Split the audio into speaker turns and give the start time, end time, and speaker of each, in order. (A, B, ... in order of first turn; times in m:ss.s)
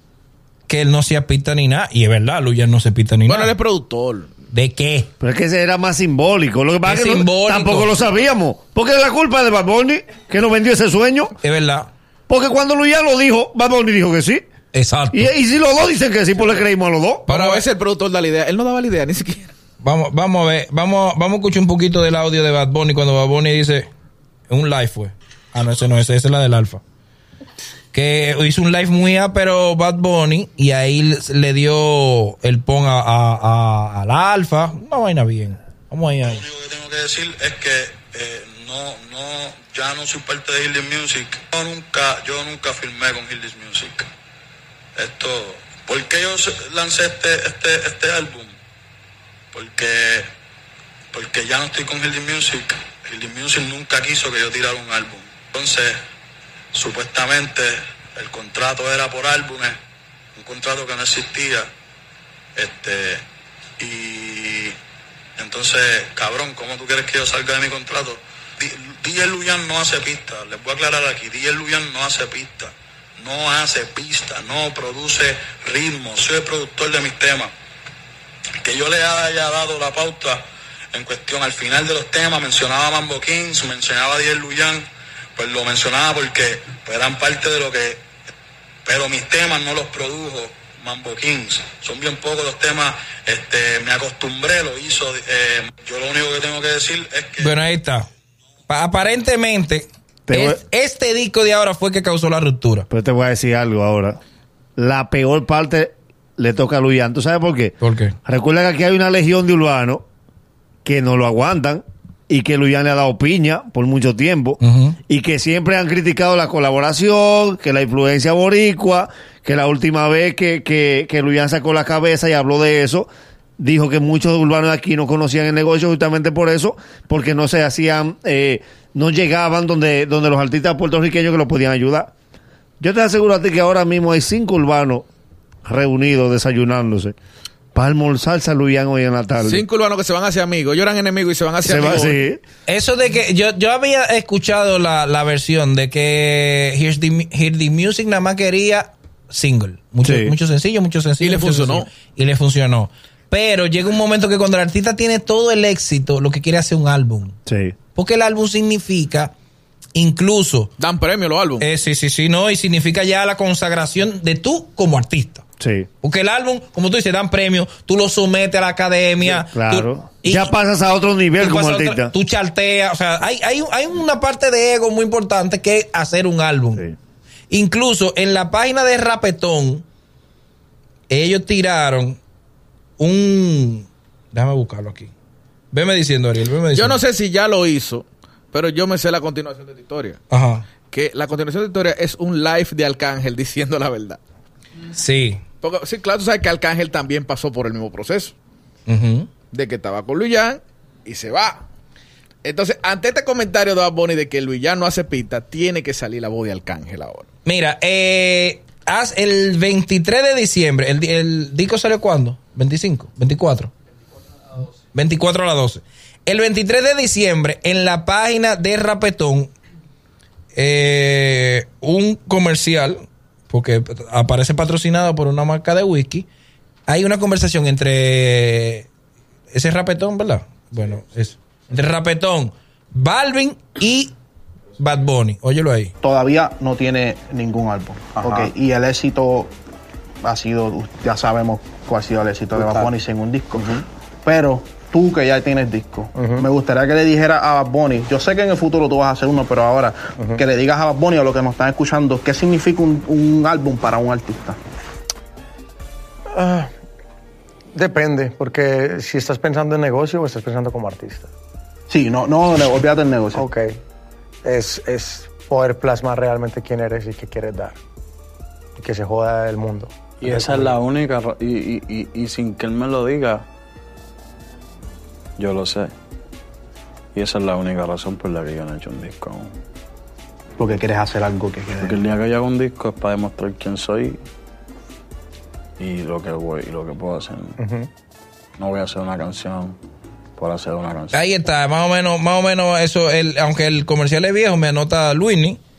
0:00.7-0:03.5 A
0:03.3-0:04.3 B
0:04.5-0:05.1 A
0:05.2-0:11.3 C
0:06.8-0:08.0 A
0:11.4-0:11.9 A
0:12.3-0:14.4 C
0:14.7-0:15.3 A
0:15.1-0:17.2 C
0:17.3-0:17.6 A
0:17.3-0:19.5 B
0:19.8-0:23.9 A
0:24.5-0:26.8 A
0:27.9-0:36.4 A
0:36.2-0:44.0 D
0:45.0-0:48.5 D
0:49.5-0:50.3 D
0:51.1-0:56.0 D
0:56.7-0:59.8 D
1:00.4-1:01.6 D
1:02.6-1:03.2 D
1:03.8-1:04.7 D
1:05.4-1:17.5 D
1:18.6-1:20.4 D
1:20.9-1:24.8 D
1:25.4-1:28.0 D
1:28.9-1:37.5 D
1:37.4-1:38.0 A
1:38.7-1:42.9 A
1:40.3-1:40.6 C
1:42.9-1:44.2 C
1:44.8-1:50.0 C
1:47.8-1:48.1 A
1:50.8-2:12.1 C
1:54.6-1:55.0 A
2:12.8-2:15.0 C
2:15.6-2:17.2 C
2:17.7-2:19.6 C
2:19.4-2:22.2 B
2:21.6-2:22.4 C
2:22.7-2:37.4 A
2:30.0-2:30.3 C
2:31.2-2:31.9 B
2:37.4-2:37.7 C
2:37.9-2:39.3 A
2:39.9-2:40.7 A
2:40.8-2:41.7 B
2:41.6-2:45.4 A
2:45.6-2:45.9 C
2:46.0-2:50.5 A
2:49.2-2:52.1 C
2:51.4-2:56.8 A
2:57.5-2:59.8 A
3:01.1-3:02.2 A
3:03.0-3:05.1 A
3:05.7-3:07.0 A
3:06.7-3:10.2 B
3:10.3-3:10.6 A
3:10.9-3:14.2 B
3:14.9-3:15.4 A
3:15.6-3:18.3 B
3:18.9-3:19.3 A
3:19.5-3:21.6 B
3:22.4-3:27.2 B
3:27.4-3:33.7 A
3:34.9-3:39.5 A
3:40.5-3:46.3 A
3:46.9-3:48.9 A
3:49.5-3:54.1 A
3:54.8-3:55.9 A
3:56.0-3:59.5 E
4:00.2-4:14.6 E
4:06.2-4:06.5 F
4:16.3-4:16.7 F
4:17.7-4:21.3 F
4:21.9-4:23.5 E
4:23.3-4:23.7 F
4:24.4-4:27.8 F
4:28.8-4:30.7 F
4:30.2-4:33.4 G
4:35.4-4:35.9 G
4:37.1-4:39.5 G
4:40.6-4:42.0 E
4:41.8-4:44.2 G
4:45.8-4:47.5 G
4:48.6-4:49.8 G
4:50.4-4:51.2 G
4:51.1-4:55.6 A